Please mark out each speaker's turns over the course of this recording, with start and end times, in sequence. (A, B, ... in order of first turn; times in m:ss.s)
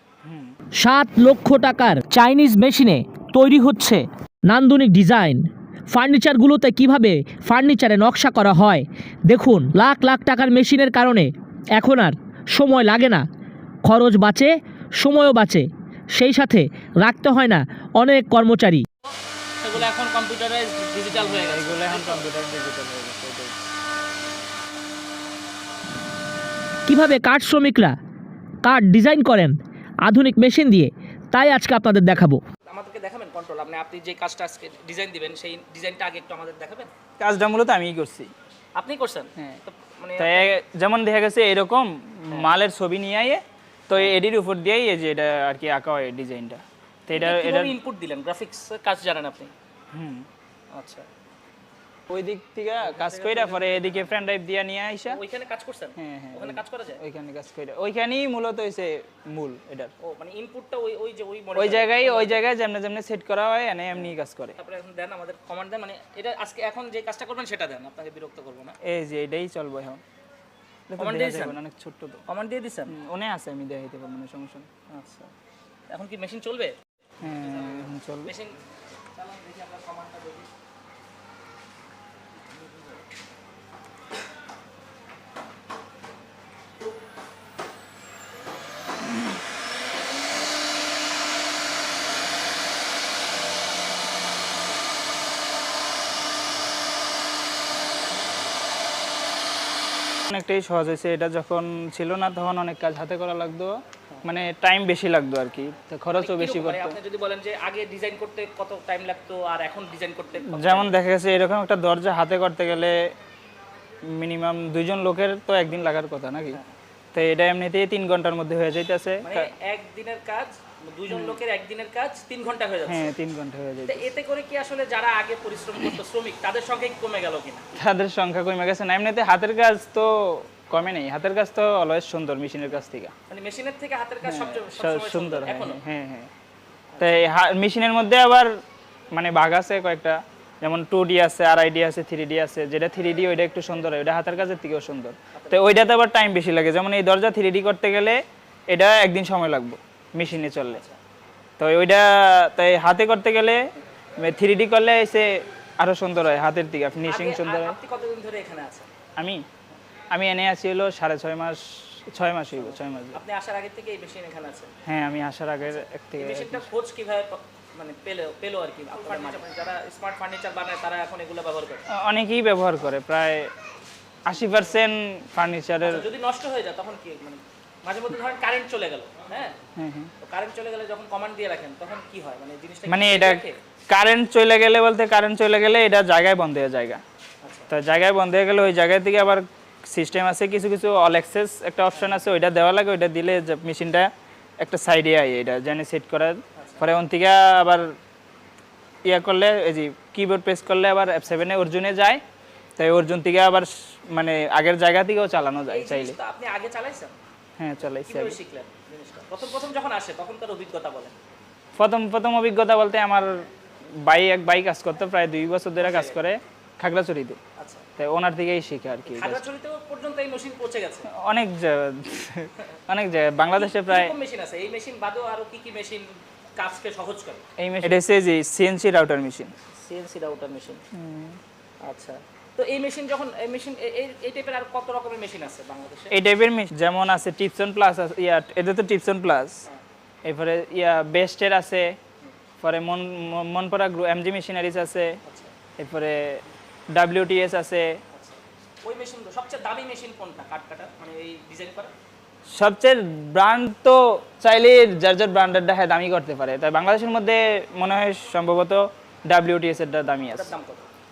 0:00.2-0:00.6 A
0:00.8-0:13.2 B
0:02.1-0:03.5 C
0:13.8-0:18.8 B
0:19.0-0:22.3 C
0:21.1-0:23.5 A
0:26.9-0:28.0 B
0:28.6-0:32.4 B
0:32.6-0:36.9 C
0:37.2-0:38.3 A
0:38.8-0:40.6 C
0:40.2-0:47.7 A
0:47.1-0:49.5 C
0:49.9-0:50.3 A
0:50.7-0:51.0 C
0:52.1-0:55.2 A
0:52.8-0:54.1 C
0:55.1-0:57.0 C
0:56.0-0:59.9 A
1:00.0-1:02.4 C
1:01.6-1:04.6 A
1:03.9-1:08.8 C
1:08.8-1:10.0 A
1:10.9-1:12.2 A
1:11.0-1:11.6 C
1:12.3-1:12.9 C
1:12.9-1:14.7 A
1:14.9-1:15.3 C
1:15.9-1:18.6 C
1:17.2-1:18.3 A
1:19.1-1:20.5 C
1:40.3-1:43.7 A
1:44.2-1:47.0 A
1:46.1-1:51.0 C
1:50.4-1:53.0 A
1:54.1-1:56.6 A
1:57.1-1:59.5 A
1:59.2-2:03.1 C
2:01.1-2:01.4 A
2:02.9-2:04.1 A
2:03.8-2:07.7 C
2:07.7-2:13.1 A
2:13.3-2:15.8 C
2:14.2-2:16.3 A
2:16.9-2:17.2 C
2:17.0-2:18.5 A
2:19.1-2:30.8 A
2:25.3-2:25.7 C
2:30.7-2:31.0 C
2:31.6-2:33.6 A
2:34.2-2:37.8 A
2:37.0-2:38.9 C
2:39.2-2:39.4 A
2:40.1-2:43.2 A
2:42.5-2:44.7 C
2:44.8-2:46.7 A
2:45.6-2:51.9 C
2:51.9-2:53.5 A
2:54.3-2:56.0 A
2:55.8-2:59.6 C
2:59.8-3:00.1 A
3:00.2-3:03.6 C
3:02.9-3:07.0 A
3:07.4-3:07.7 C
3:07.7-3:17.9 A
3:11.9-3:12.2 C
3:16.6-3:16.8 C
3:19.0-3:22.2 A
3:22.8-3:26.2 A
3:25.7-3:27.1 C
3:27.6-3:28.4 A
3:27.9-3:31.2 C
3:31.8-3:33.5 A
3:34.0-3:37.4 A
3:35.8-3:36.2 C
3:37.6-3:37.8 C
3:38.0-3:39.4 A
3:39.0-3:41.1 C
3:41.2-3:44.1 A
3:43.4-3:47.4 C
3:47.6-3:49.5 A
3:49.8-3:50.8 C
3:50.9-3:51.4 A
3:51.8-3:56.1 C
3:56.1-3:59.6 A
4:00.2-4:02.0 A
4:02.6-4:05.2 A
4:05.2-4:05.5 C
4:05.8-4:08.0 A
4:08.1-4:11.9 C
4:12.5-4:20.5 A
4:20.3-4:20.9 C